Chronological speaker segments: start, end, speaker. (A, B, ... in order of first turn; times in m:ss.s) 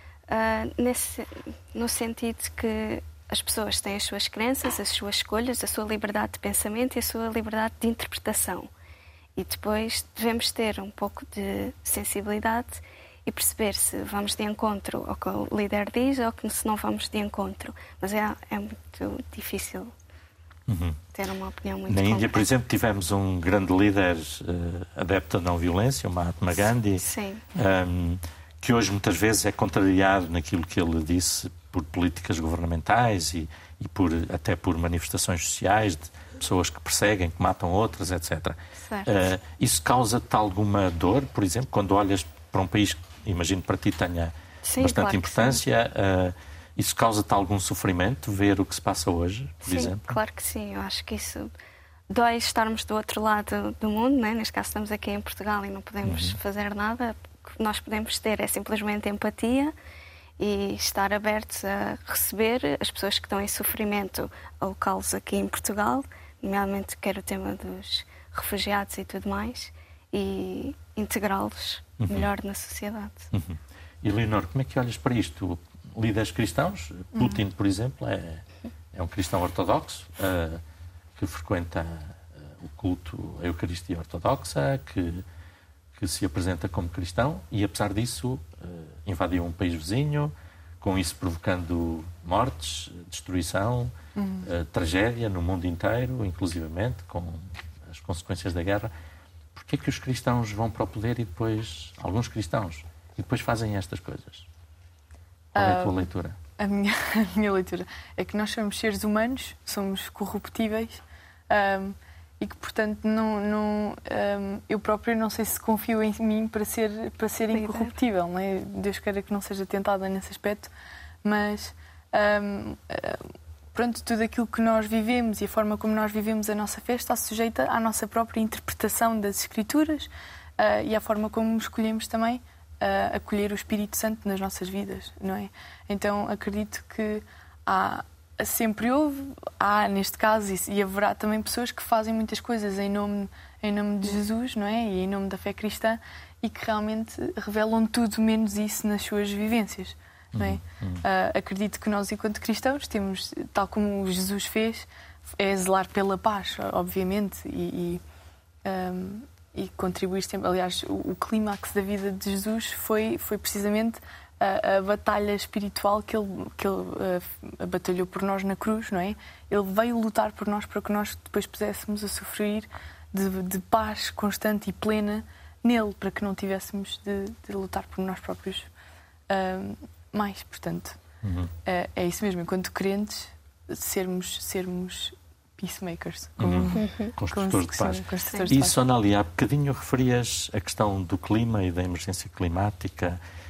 0:00.3-0:08.7 A
0:09.4-0:19.9 A
0:20.7-0:21.0 B
0:21.1-0:22.5 A
0:21.9-0:50.2 B
0:26.6-0:27.4 A
0:38.8-0:39.1 A
0:44.6-0:45.6 A
0:49.6-0:51.5 A
0:52.1-0:59.7 A
0:56.0-0:56.4 B
1:00.4-1:13.3 A
1:12.0-1:12.3 B
1:13.3-1:20.6 B
1:21.2-1:25.2 B
1:26.0-1:33.9 B
1:34.2-1:34.5 C
1:34.4-1:38.9 B
1:39.6-1:44.5 B
1:45.6-1:46.1 C
1:45.6-1:46.4 B
1:46.6-2:00.7 C
1:57.5-1:57.9 A
2:01.2-2:03.2 C
2:03.7-2:38.0 C
2:30.3-2:31.0 B
2:38.6-2:58.7 C
2:59.3-3:01.0 C
3:01.2-3:01.5 B
3:01.7-3:08.8 C
3:06.4-3:13.2 B
3:06.7-3:07.1 A